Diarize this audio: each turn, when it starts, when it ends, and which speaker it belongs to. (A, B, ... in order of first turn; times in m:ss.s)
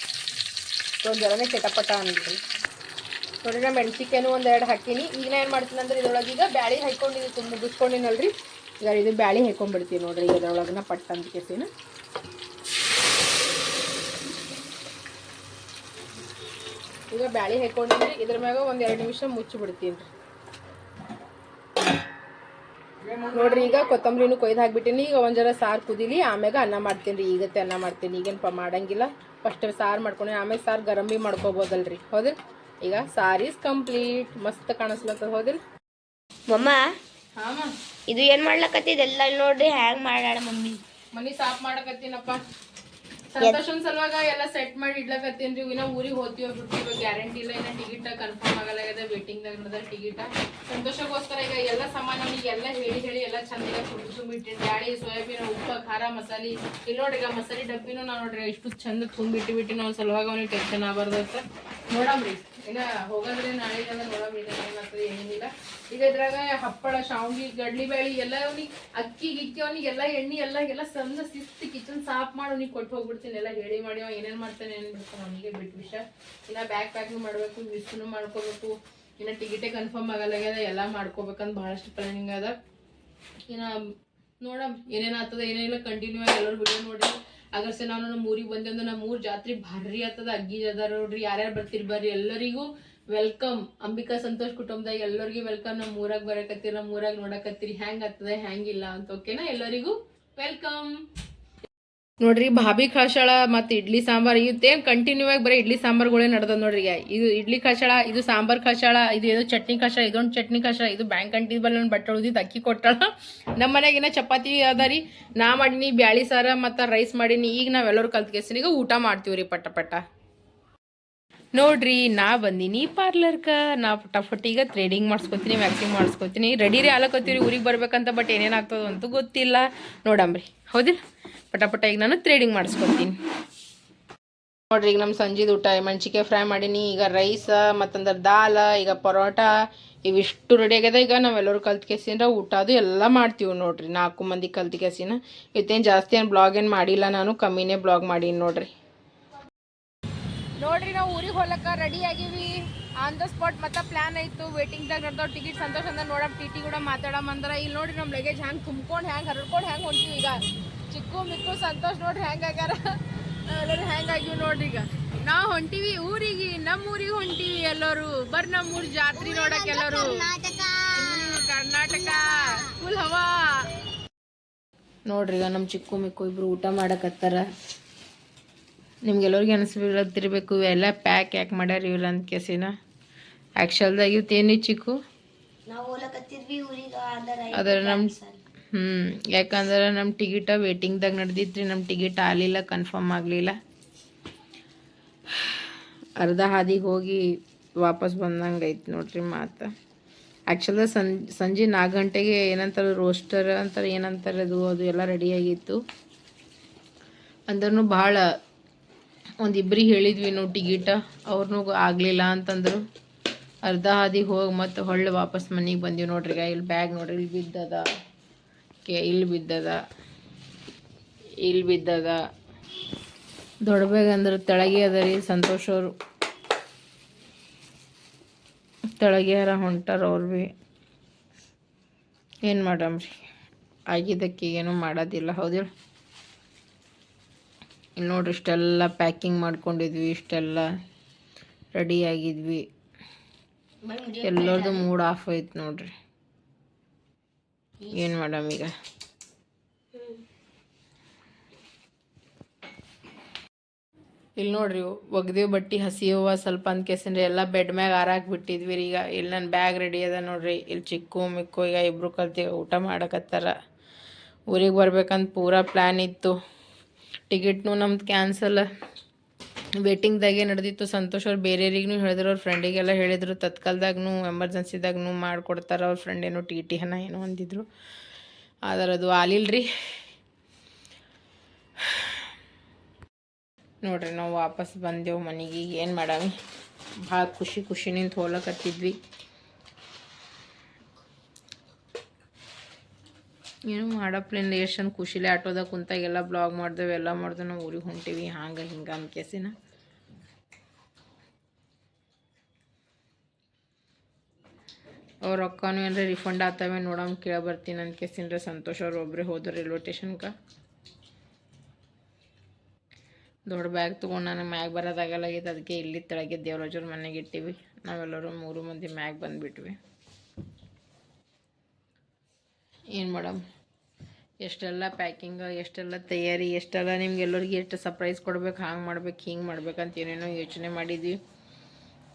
0:01.0-0:02.4 A
0:03.4-0:11.7 A
0:17.1-0:20.1 A
0:23.2-0:23.8 B
0:23.3-0:35.6 A
0:36.5-0:36.9 B
0:37.4-0:37.7 A
0:38.1-0:40.8 B
0:41.1-0:42.4 A
0:43.4-1:22.5 A
1:23.5-1:23.8 A
1:24.4-1:40.9 A
1:42.2-2:00.0 A
2:01.5-2:11.0 A
2:11.5-2:13.2 A
2:14.7-2:19.5 A
2:20.0-2:28.7 A
2:30.6-2:50.3 A
2:49.2-2:51.3 B
2:51.0-2:53.6 A
2:55.0-2:57.4 A
2:59.0-3:02.7 A
3:03.6-3:05.0 A
3:05.7-3:08.4 B
3:07.5-3:08.1 A
3:08.7-3:13.5 A
3:16.2-3:17.2 A
3:17.8-3:19.7 A
3:20.5-3:25.8 A
3:27.5-3:28.2 A
3:29.4-3:32.8 A
3:33.6-3:37.8 A
3:38.8-3:39.8 A
3:41.4-3:42.2 A
3:43.6-3:45.9 A
3:49.0-3:50.4 A
3:52.4-3:53.1 A
3:53.9-3:55.7 A
3:58.0-4:00.7 A
4:01.7-4:02.6 A
4:03.8-4:04.9 B
4:04.2-4:05.9 A
4:07.9-4:08.7 A
4:09.9-4:10.2 B
4:14.4-4:23.5 A
4:24.5-4:26.3 A
4:27.3-4:28.6 A
4:29.8-4:37.6 A
4:38.7-4:39.6 A
4:43.8-4:46.3 A
4:47.0-4:48.9 A
4:53.7-4:59.5 A
5:05.2-5:10.3 A
5:13.5-5:19.8 A
5:22.9-5:23.4 A
5:24.4-5:31.2 A